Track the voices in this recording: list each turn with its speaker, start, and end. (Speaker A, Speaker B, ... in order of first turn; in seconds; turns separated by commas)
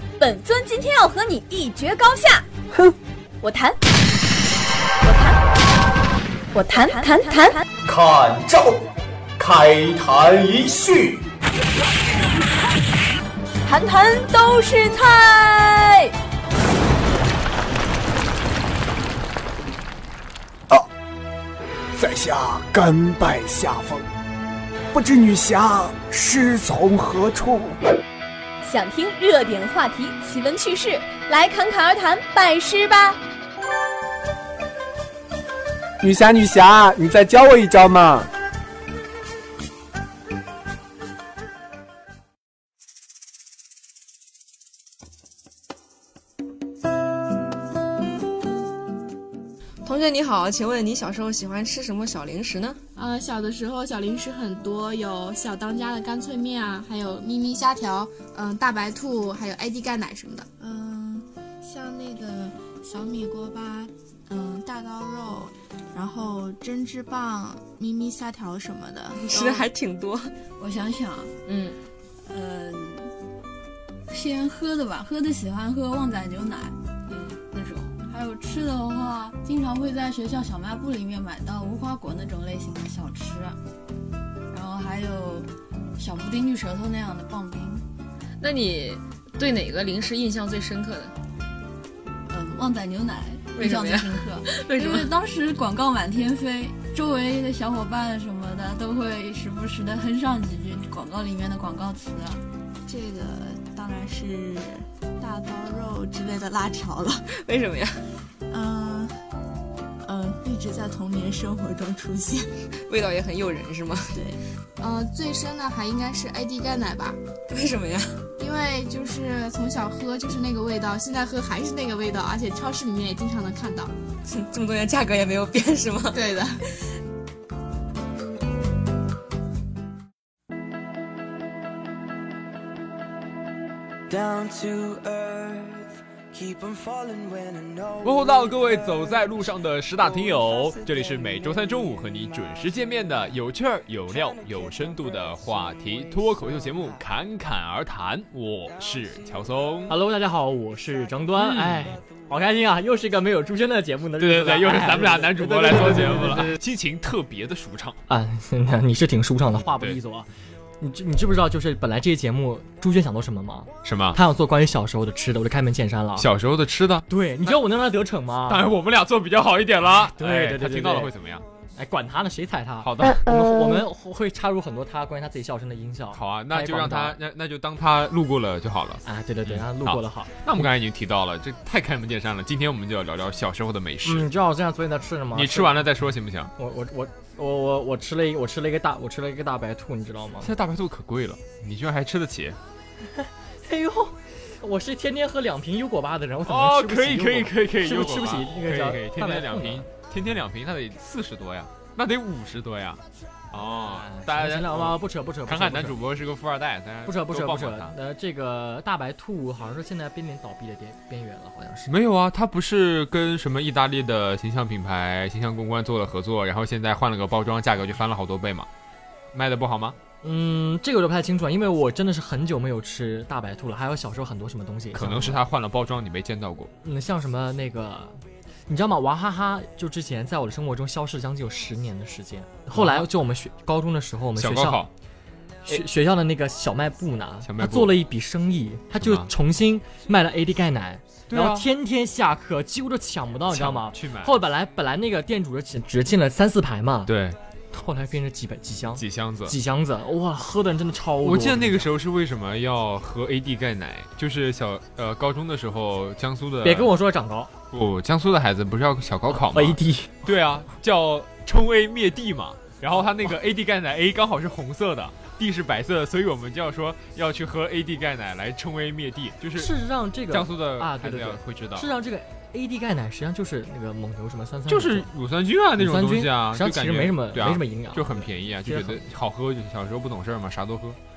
Speaker A: 0.2-2.4, Speaker A: 3.4-3.8, Speaker A: 5.0-5.4, Speaker A: 6.5-7.6, Speaker B: 7.9-8.8, Speaker B: 9.4-11.2, Speaker A: 13.7-16.1, Speaker C: 21.9-24.1, Speaker C: 24.9-27.8, Speaker A: 28.6-33.2, Speaker C: 36.0-38.2, Speaker D: 49.9-52.8, Speaker E: 53.0-60.5, Speaker F: 60.6-69.7, Speaker D: 69.2-70.3, Speaker G: 70.6-71.3, Speaker D: 71.5-71.8, Speaker G: 72.2-73.1, Speaker G: 74.1-76.8, Speaker D: 77.1-77.4, Speaker G: 77.5-83.6, Speaker G: 84.5-87.8, Speaker D: 88.4-91.2, Speaker G: 92.3-102.4, Speaker D: 93.6-95.1, Speaker F: 102.8-107.2, Speaker D: 107.4-108.0, Speaker F: 108.5-109.1, Speaker F: 110.0-112.5, Speaker D: 112.9-114.2, Speaker F: 114.1-114.4, Speaker E: 114.8-117.2, Speaker D: 117.5-118.2, Speaker E: 118.4-123.9, Speaker D: 124.3-126.2, Speaker E: 126.1-126.6, Speaker H: 134.1-141.9, Speaker I: 138.0-150.0, Speaker H: 144.1-145.6, Speaker J: 149.9-156.6, Speaker I: 151.4-152.0, Speaker I: 154.2-158.0, Speaker J: 158.1-160.3, Speaker I: 159.6-160.0, Speaker J: 160.8-166.3, Speaker I: 163.8-164.2, Speaker I: 166.2-167.6, Speaker J: 167.1-168.7, Speaker I: 168.4-171.5, Speaker J: 170.1-171.1, Speaker J: 171.8-177.2, Speaker I: 172.8-173.3, Speaker I: 176.1-184.3, Speaker J: 179.1-180.3, Speaker J: 184.1-185.9, Speaker I: 185.3-186.5, Speaker J: 186.6-190.5, Speaker I: 190.4-192.6, Speaker J: 193.2-199.9, Speaker I: 196.4-207.9, Speaker J: 203.6-206.0, Speaker J: 207.1-211.9, Speaker I: 211.9-218.7, Speaker I: 219.3-220.0, Speaker J: 220.2-225.4, Speaker I: 224.9-226.7, Speaker J: 226.8-234.8, Speaker I: 232.7-233.1, Speaker I: 234.4-234.9, Speaker J: 235.7-247.1, Speaker I: 237.4-238.0, Speaker I: 239.0-239.3, Speaker I: 241.3-241.7, Speaker I: 243.5-244.4, Speaker I: 247.1-247.4, Speaker J: 247.7-251.9, Speaker I: 248.9-249.6, Speaker I: 251.2-256.9, Speaker J: 256.6-257.5, Speaker I: 257.7-269.8, Speaker J: 259.3-260.2, Speaker J: 269.6-275.1, Speaker I: 270.3-271.9, Speaker I: 274.7-281.0, Speaker J: 275.8-279.0